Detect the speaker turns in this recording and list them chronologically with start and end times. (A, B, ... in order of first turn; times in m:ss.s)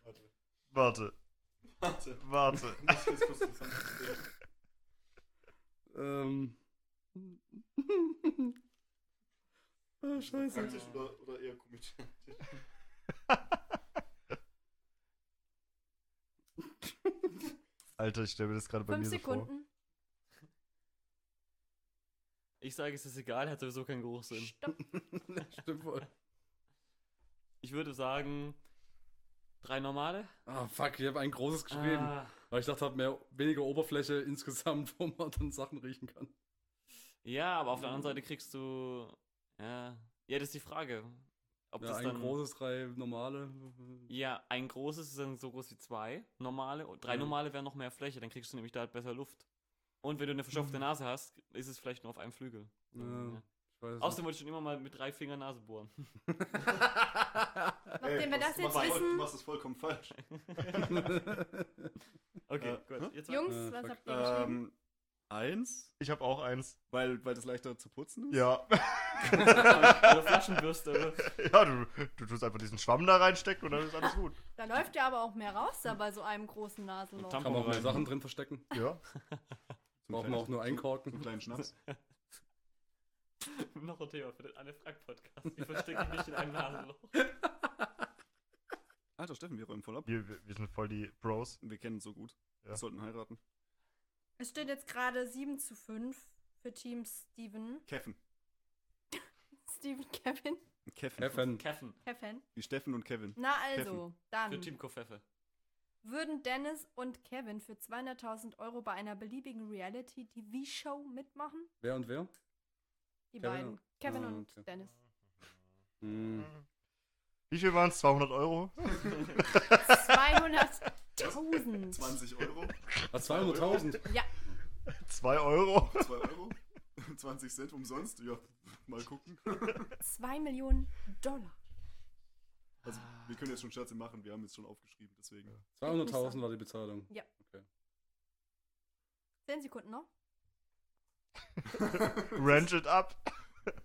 0:00.7-0:01.1 A
0:01.8-0:04.3 B
0:02.2-0:03.1 A
0:05.9-0:06.6 C
0:07.2-0:08.5 C
0:10.0-0:10.9 C
0:10.1-0:12.5 B
0:10.5-0:11.0 D
0:18.0-0:19.5 A
0:18.9-0:19.7 E
0:22.6-0:24.5 D
0:24.3-0:24.8 E
0:24.9-0:26.1 C
0:27.6-0:28.6 D
0:29.6-0:30.3 D
0:30.5-0:36.3 C
0:31.7-0:32.4 D
0:37.2-0:42.4 D
0:41.8-0:44.1 C
0:44.1-0:49.4 D
0:47.1-0:47.3 C
0:50.0-0:53.4 D
0:52.9-0:54.2 C
0:54.0-0:56.1 D
0:56.3-0:56.8 C
0:58.0-0:59.3 E
0:58.0-1:01.1 B
0:58.6-0:59.1 D
1:00.2-1:01.1 D
1:00.9-1:01.9 C
1:02.5-1:03.6 D
1:02.6-1:03.1 B
1:03.3-1:04.6 E
1:03.5-1:04.0 C
1:04.0-1:04.8 B
1:05.3-1:05.9 B
1:06.0-1:06.8 A
1:06.9-1:08.6 B
1:08.3-1:10.4 A
1:09.2-1:10.1 B
1:09.4-1:11.3 D
1:11.2-1:14.4 A
1:14.5-1:17.6 E
1:17.2-1:18.1 D
1:17.4-1:18.7 C
1:18.7-1:19.0 A
1:20.0-1:21.7 B
1:20.1-1:21.3 C
1:23.4-1:27.2 D
1:27.3-1:27.8 C
1:29.2-1:30.1 B
1:30.0-1:31.6 A
1:31.6-1:33.4 B
1:34.4-1:37.8 E
1:37.8-1:38.2 B
1:39.6-1:40.6 E
1:40.8-1:41.6 B
1:41.2-1:41.6 C
1:41.6-1:42.0 D
1:42.0-1:42.4 E
1:42.6-1:44.0 B
1:43.4-1:44.7 E
1:44.4-1:45.2 D
1:46.0-1:51.7 E
1:51.8-1:52.3 C
1:53.3-1:54.9 E
1:53.4-1:54.6 C
1:56.0-1:56.5 C
1:57.5-2:00.2 A
1:59.8-2:02.1 E
2:01.2-2:04.0 B
2:03.1-2:04.1 C
2:04.9-2:06.2 A
2:05.9-2:09.9 B
2:10.0-2:11.6 E
2:12.8-2:15.6 B
2:15.8-2:17.6 C
2:15.8-2:16.4 E
2:19.4-2:20.1 E
2:21.8-2:23.3 A
2:21.8-2:22.6 B